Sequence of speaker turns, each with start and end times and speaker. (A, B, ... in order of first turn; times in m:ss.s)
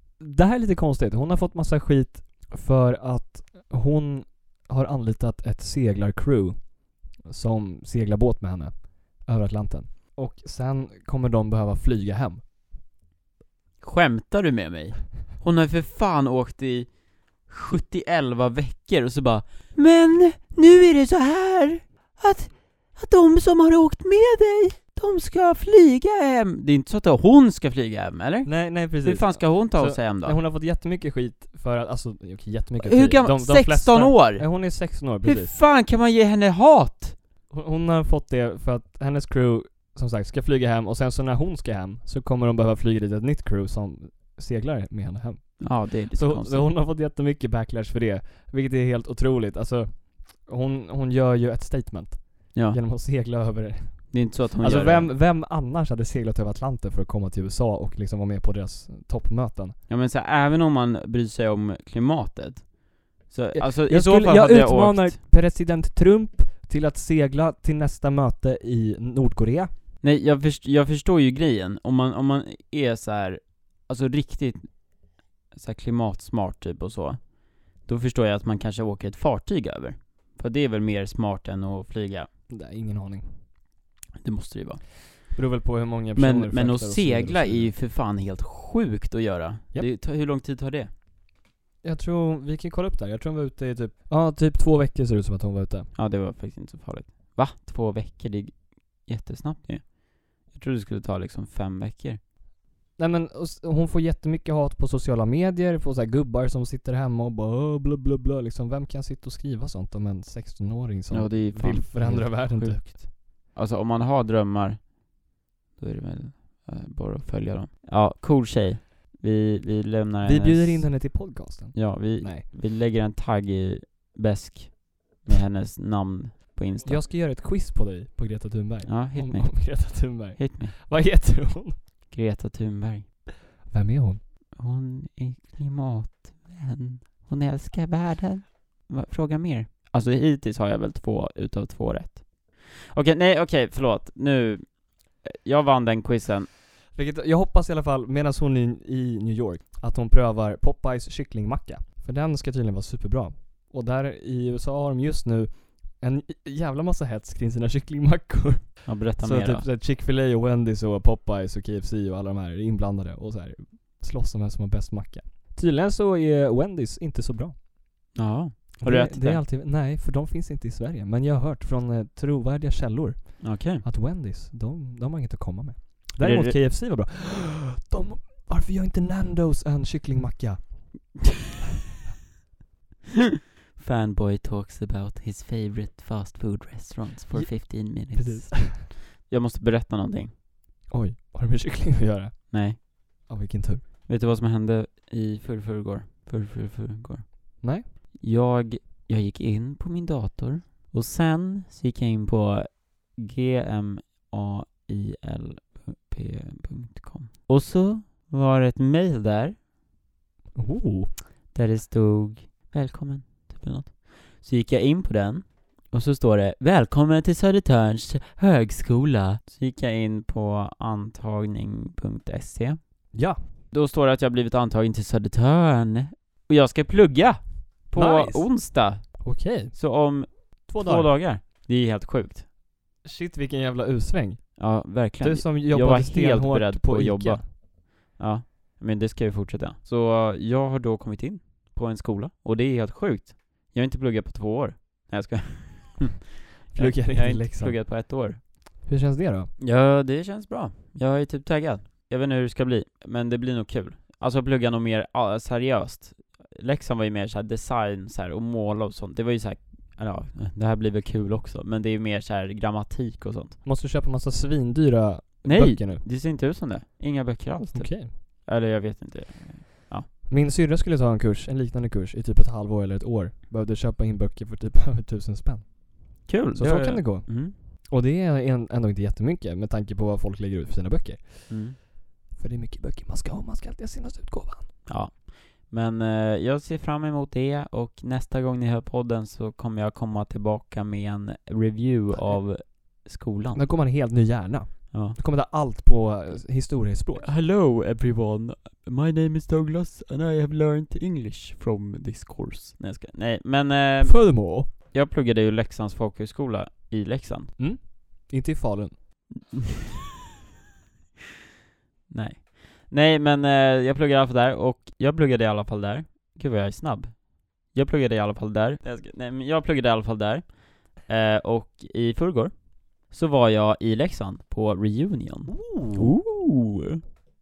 0:00.2-0:12.4 A
0:13.8-0:30.4 B
0:28.4-0:35.5 A
0:32.8-0:37.2 B
0:37.5-0:59.8 A
0:45.6-0:46.7 B
0:54.1-0:55.1 B
0:59.9-1:05.2 B
1:03.5-1:09.7 A
1:10.0-1:22.3 B
1:22.5-1:23.4 A
1:24.2-1:24.9 B
1:25.3-1:27.7 A
1:26.2-1:30.9 B
1:31.8-1:35.9 A
1:35.9-1:42.2 B
1:43.0-1:52.8 A
1:51.1-1:55.0 B
1:55.8-2:07.0 B
2:00.2-2:02.4 A
2:06.8-2:11.8 A
2:08.8-2:10.8 B
2:12.1-2:13.1 B
2:13.7-2:14.2 A
2:14.5-2:26.5 B
2:26.9-2:47.6 A
2:38.8-2:39.7 B
2:48.1-2:49.4 B
2:48.8-3:01.1 A
2:53.4-2:53.8 B
2:56.2-2:56.6 B
3:03.8-3:10.3 B
3:07.3-3:08.9 A
3:10.9-3:13.8 A
3:12.5-3:13.3 B
3:14.0-3:29.6 B
3:17.6-3:17.8 A
3:30.5-3:31.1 A
3:31.5-3:43.1 B
3:43.1-3:43.4 A
3:43.7-3:52.4 B
3:47.9-3:51.2 A
3:53.0-3:57.5 A
3:54.6-4:08.4 B
4:06.7-4:07.9 A
4:08.8-4:09.5 A
4:09.6-4:23.6 B
4:23.6-4:26.0 A
4:25.4-4:30.1 B
4:27.7-4:28.1 A
4:30.2-4:44.8 A
4:36.2-4:37.5 B
4:41.5-4:41.8 B
4:44.8-4:53.6 B
4:53.5-4:57.3 A
4:54.9-4:55.2 B
4:57.2-5:07.5 B
5:04.0-5:04.7 A
5:07.6-5:09.0 A
5:12.1-5:27.0 B
5:25.5-5:26.1 A